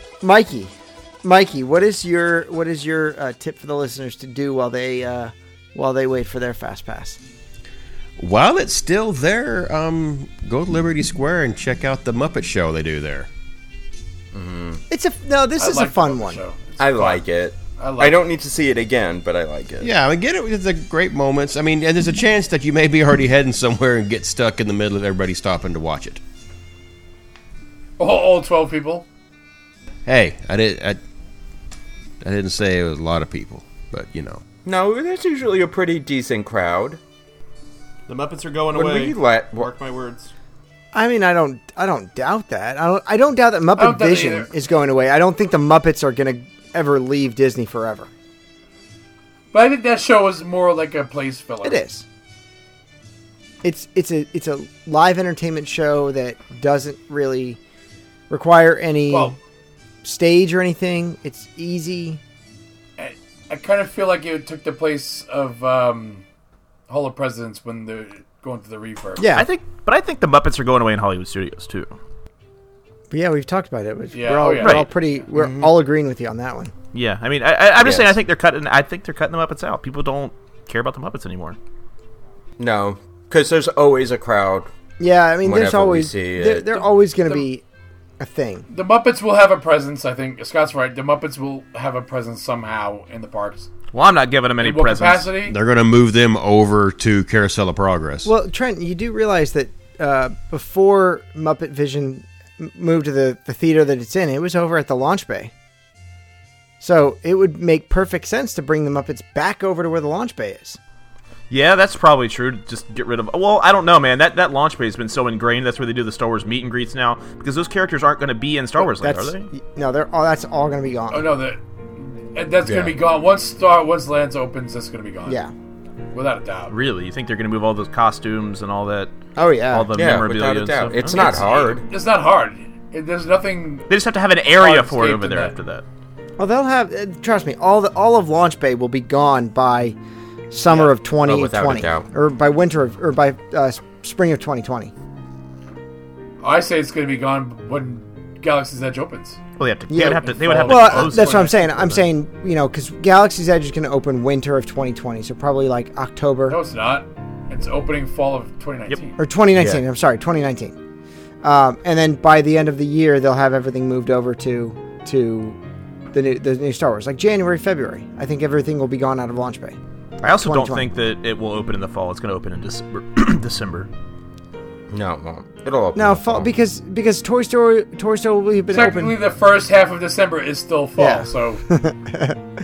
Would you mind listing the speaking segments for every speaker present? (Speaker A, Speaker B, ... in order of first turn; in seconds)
Speaker A: 0.2-7.2, 14.9-16.4, 40.9-48.1, 51.6-52.0, 53.6-57.6, 58.3-59.4, 60.0-62.2, 69.2-69.5, 73.1-76.7, 85.0-87.6, 88.2-88.7, 98.2-105.5, 106.8-110.8, 118.8-121.3, 125.2-125.5, 129.3-129.9, 136.4-139.9, 140.5-144.9, 149.9-156.6, 159.2-160.7, 161.4-165.6, 166.1-169.8, 170.4-170.8, 175.9-179.2, 181.0-182.4
Speaker B: 8.2-13.3, 19.8-26.2, 30.1-31.0, 32.2-34.4, 95.4-98.3
Speaker C: 14.3-14.8, 16.8-19.9, 34.6-37.0, 38.7-39.7, 77.8-78.1, 82.6-84.7, 85.4-86.8, 122.7-123.0, 129.9-131.8, 140.7-142.1, 159.5-159.8, 174.9-176.5
Speaker D: 15.6-17.2, 17.8-18.2, 28.0-29.1, 43.8-44.5, 49.5-51.8, 59.1-59.4, 63.0-66.2, 66.9-69.3, 74.1-74.9, 88.7-93.7, 94.6-95.5, 121.1-125.4, 126.1-126.7, 131.1-133.9, 134.6-135.5, 146.4-149.4, 150.3-152.0, 156.5-159.2, 178.7-181.6
Speaker E: 38.1-40.3, 69.3-72.0, 74.6-75.7, 76.9-81.6, 93.9-95.3, 111.5-119.5, 126.7-129.1, 129.7-131.5, 133.9-135.8, 149.6-151.6, 170.2-173.9